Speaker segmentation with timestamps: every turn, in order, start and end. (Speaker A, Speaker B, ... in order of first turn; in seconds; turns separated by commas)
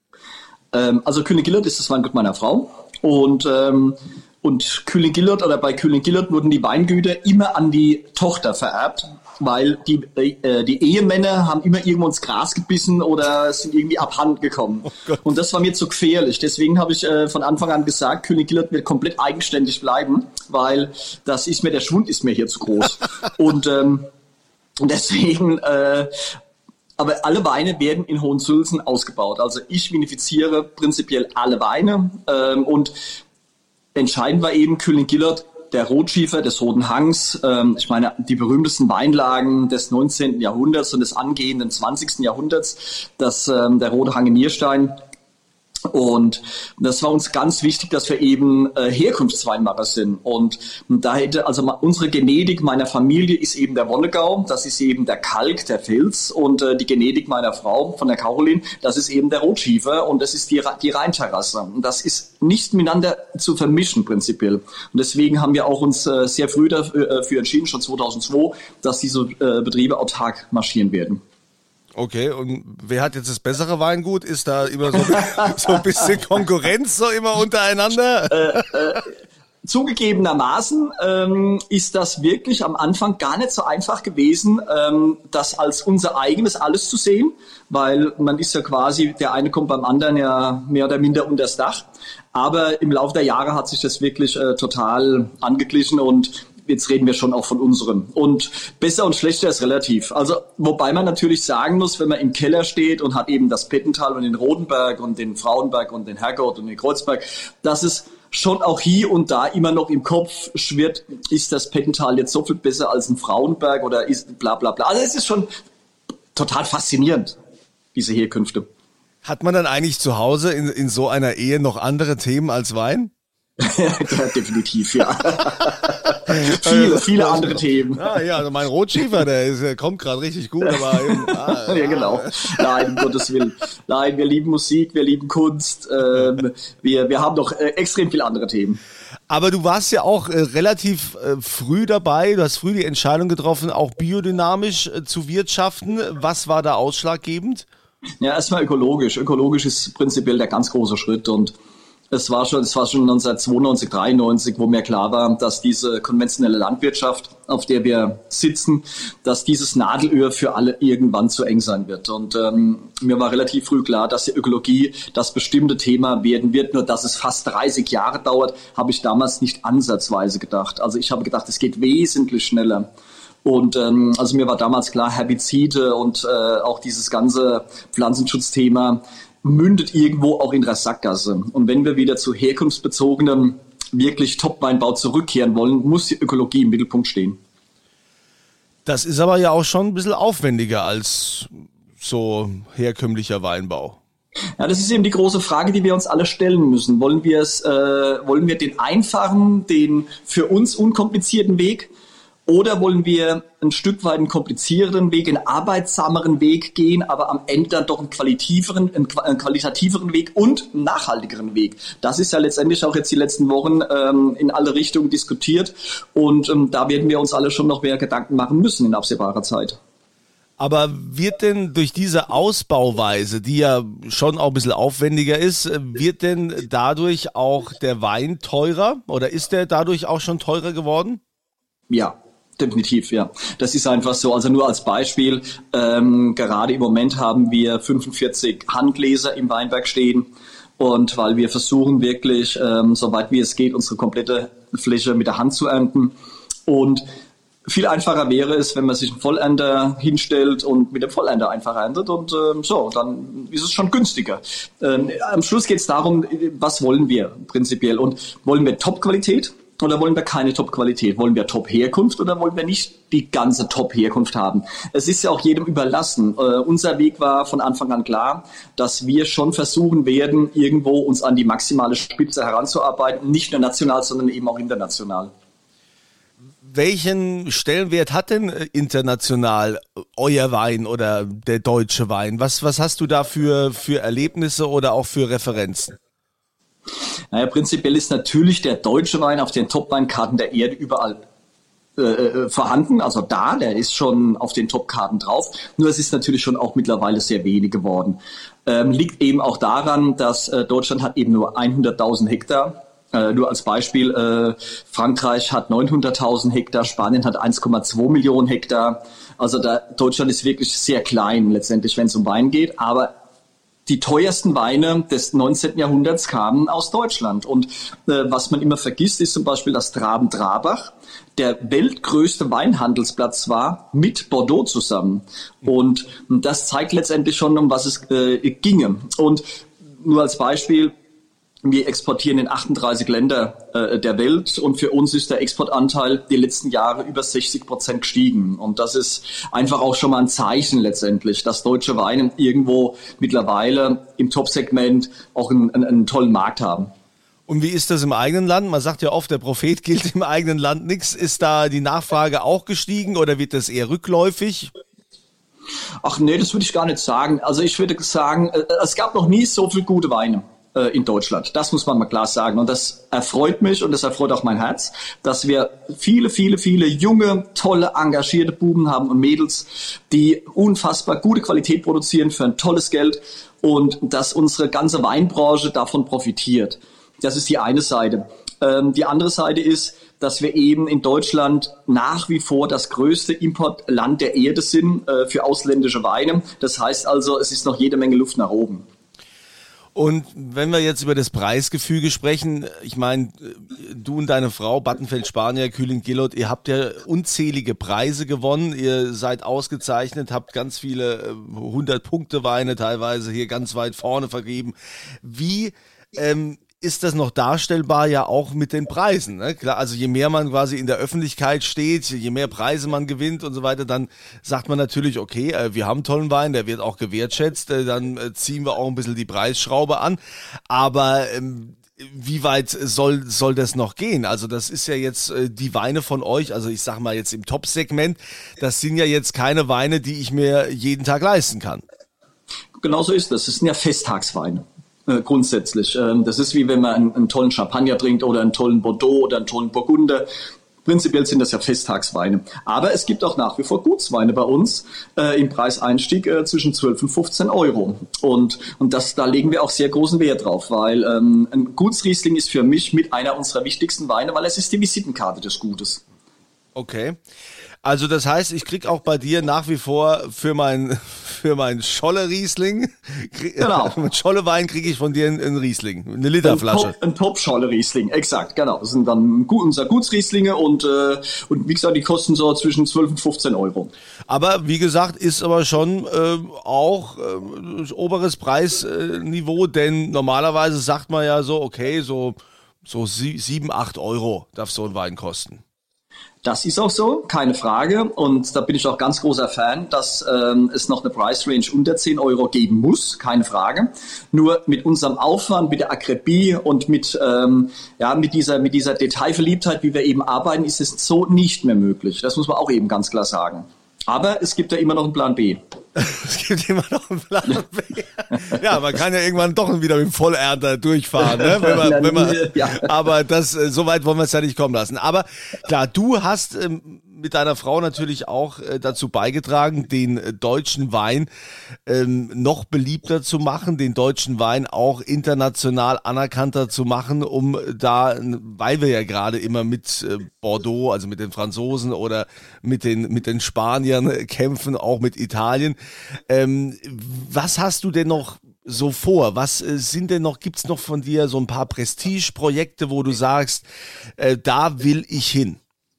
Speaker A: 0.7-24.1, Speaker A: 24.8-26.1, Speaker A: 27.0-33.0, Speaker A: 33.9-45.0, Speaker A: 45.9-71.2, Speaker B: 71.9-78.6, Speaker A: 78.3-79.1, Speaker A: 79.6-115.5, Speaker A: 116.3-117.4, Speaker A: 117.9-118.7, Speaker B: 119.2-123.1, Speaker A: 123.6-128.1, Speaker B: 126.3-132.6, Speaker A: 130.7-138.8, Speaker B: 139.3-147.7, Speaker A: 148.2-151.5, Speaker A: 152.1-172.9, Speaker A: 173.4-187.4, Speaker B: 188.8-194.0, Speaker A: 194.6-201.9, Speaker A: 202.5-219.8, Speaker B: 220.6-231.2, Speaker A: 231.9-240.3, Speaker A: 240.8-246.1, Speaker A: 246.7-247.1, Speaker A: 247.7-275.3, Speaker B: 276.6-285.9, Speaker A: 287.3-291.2, Speaker A: 292.0-313.1, Speaker A: 313.9-330.9, Speaker A: 331.6-346.9, Speaker B: 347.5-354.7, Speaker A: 356.0-388.9, Speaker B: 389.9-431.8, Speaker A: 432.8-440.3, Speaker A: 440.8-456.0, Speaker B: 456.7-457.2, Speaker B: 457.8-466.9, Speaker A: 463.6-464.0, Speaker A: 466.4-473.9, Speaker B: 474.3-485.6, Speaker A: 486.4-505.6, Speaker B: 505.9-521.3, Speaker A: 511.2-512.9, Speaker B: 521.9-535.8, Speaker B: 536.3-543.6, Speaker B: 544.2-545.6